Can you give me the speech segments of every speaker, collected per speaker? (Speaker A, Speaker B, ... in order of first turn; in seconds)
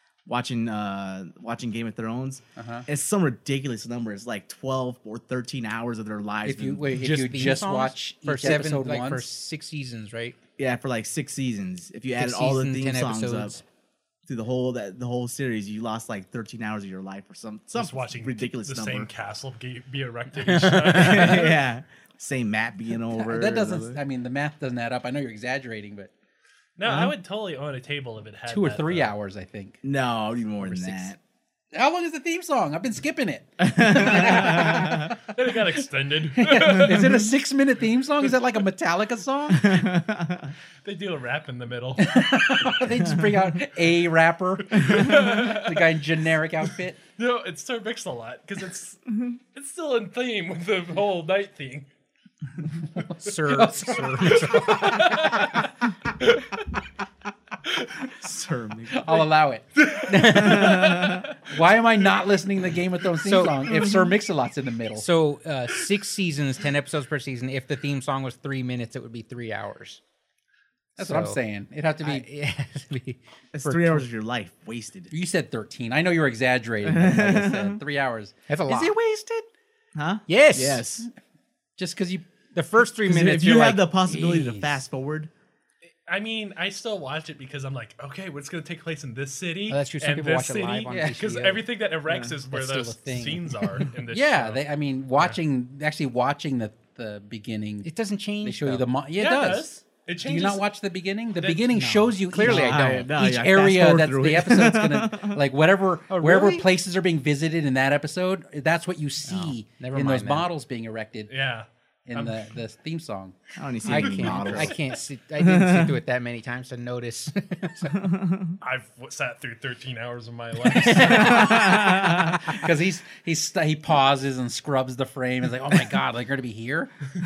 Speaker A: 0.3-6.9, 10.6-13.6, 14.3-19.1, 20.9-24.0, 26.9-27.1, 29.8-31.2, 33.6-35.1, 39.6-40.5, 58.1-59.2, 73.5-75.1, 76.8-77.8, 80.0-81.1, 83.0-85.3, 92.1-92.3, 102.4-105.4, 113.6-114.8, 115.4-115.9, 121.4-122.3
Speaker B: 2.6-2.9, 6.5-9.3, 23.1-26.1, 28.5-29.8, 30.6-31.1, 31.7-35.2, 36.4-40.0, 42.0-47.0, 53.0-54.4, 58.9-59.6, 60.3-65.1, 71.0-72.3, 75.1-79.0, 81.8-82.3, 84.1-84.8, 94.1-97.9, 98.4-99.7, 100.2-111.3, 112.1-114.8, 121.0-127.1
Speaker C: 6.8-10.4, 12.2-13.6, 20.4-21.5, 53.2-55.1, 60.0-61.1, 63.2-64.0, 65.0-70.0, 71.0-71.4, 72.0-74.1, 78.5-79.5, 80.3-80.8, 82.5-83.9, 89.7-91.6, 92.5-93.6, 97.8-98.9, 101.4-103.1, 106.1-106.7, 109.3-110.5, 113.8-118.2, 120.8-122.0
Speaker D: 17.8-21.6, 26.8-29.1, 34.5-37.3, 40.8-42.2, 44.7-46.1, 47.2-51.9, 53.5-56.7, 57.7-58.1, 59.8-61.4, 86.1-94.6, 99.2-100.7, 111.3-112.5, 118.6-121.9